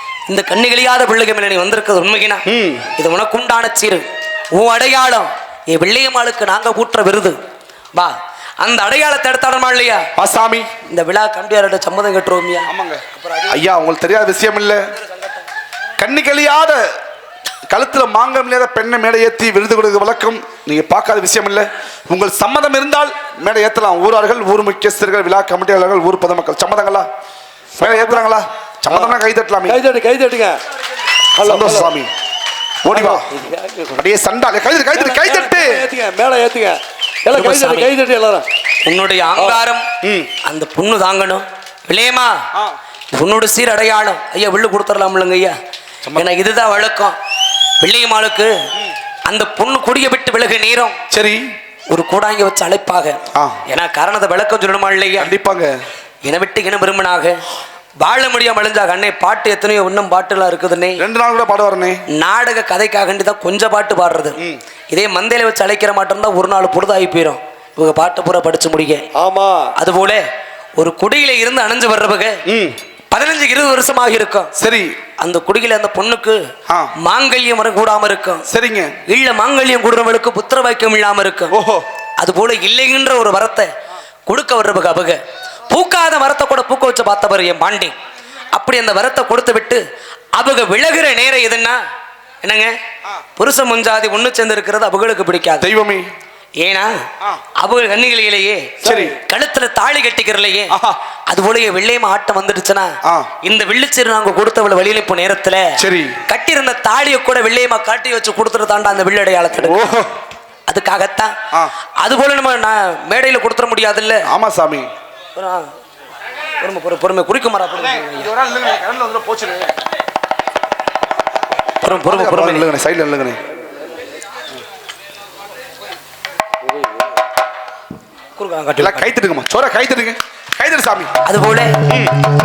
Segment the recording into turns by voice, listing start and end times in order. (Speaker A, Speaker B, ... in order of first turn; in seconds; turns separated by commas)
Speaker A: 0.3-2.4, Speaker B: 2.5-2.9, Speaker A: 3.0-7.3, Speaker A: 7.9-10.1, Speaker B: 10.2-10.7, Speaker A: 10.9-13.6, Speaker B: 12.7-14.8, Speaker A: 15.1-15.4, Speaker B: 16.0-16.9, Speaker B: 17.7-27.1, Speaker C: 27.8-28.2, Speaker B: 27.8-29.8, Speaker C: 28.9-30.6, Speaker C: 31.4-31.9, Speaker B: 31.4-32.1, Speaker B: 32.8-33.2, Speaker C: 32.9-34.0, Speaker B: 34.0-35.8, Speaker C: 34.9-38.5, Speaker A: 37.3-37.9, Speaker A: 38.8-39.8, Speaker B: 40.0-40.3, Speaker A: 40.4-42.4, Speaker A: 43.1-45.5, Speaker A: 46.1-47.1, Speaker A: 47.8-48.5, Speaker A: 49.2-51.0, Speaker B: 51.1-51.5, Speaker A: 51.9-55.3, Speaker B: 53.3-53.6, Speaker B: 55.2-55.7, Speaker A: 56.2-57.4, Speaker A: 58.0-61.0, Speaker B: 61.0-62.0, Speaker A: 62.1-64.4, Speaker A: 64.9-69.0, Speaker C: 69.1-69.7, Speaker A: 69.8-70.2, Speaker A: 70.8-72.4, Speaker B: 72.5-72.8, Speaker A: 73.1-74.5, Speaker B: 74.5-75.0, Speaker A: 75.2-76.4, Speaker B: 76.7-76.9, Speaker A: 77.0-78.4, Speaker B: 78.5-78.9, Speaker A: 79.1-81.5, Speaker B: 81.5-81.8, Speaker A: 82.2-83.7, Speaker A: 84.3-87.9, Speaker A: 88.5-89.8, Speaker A: 90.3-91.8, Speaker A: 92.4-92.7, Speaker A: 93.3-95.7, Speaker B: 95.6-96.1, Speaker A: 96.6-96.9, Speaker A: 97.6-100.7, Speaker C: 98.8-99.1, Speaker B: 98.8-99.2, Speaker B: 100.7-101.0, Speaker A: 101.3-102.9, Speaker B: 103.0-103.3, Speaker A: 103.4-105.7, Speaker B: 105.8-106.2, Speaker A: 106.3-109.8, Speaker B: 109.5-110.1, Speaker A: 110.7-111.3, Speaker A: 112.0-114.3, Speaker B: 114.2-114.9, Speaker A: 115.3-115.7, Speaker A: 116.6-118.3, Speaker B: 117.9-119.7, Speaker A: 121.8-122.7, Speaker B: 121.9-123.4, Speaker C: 126.6-127.0, Speaker A: 128.4-129.1, Speaker B: 128.8-131.2, Speaker A: 131.2-131.8, Speaker B: 131.8-132.2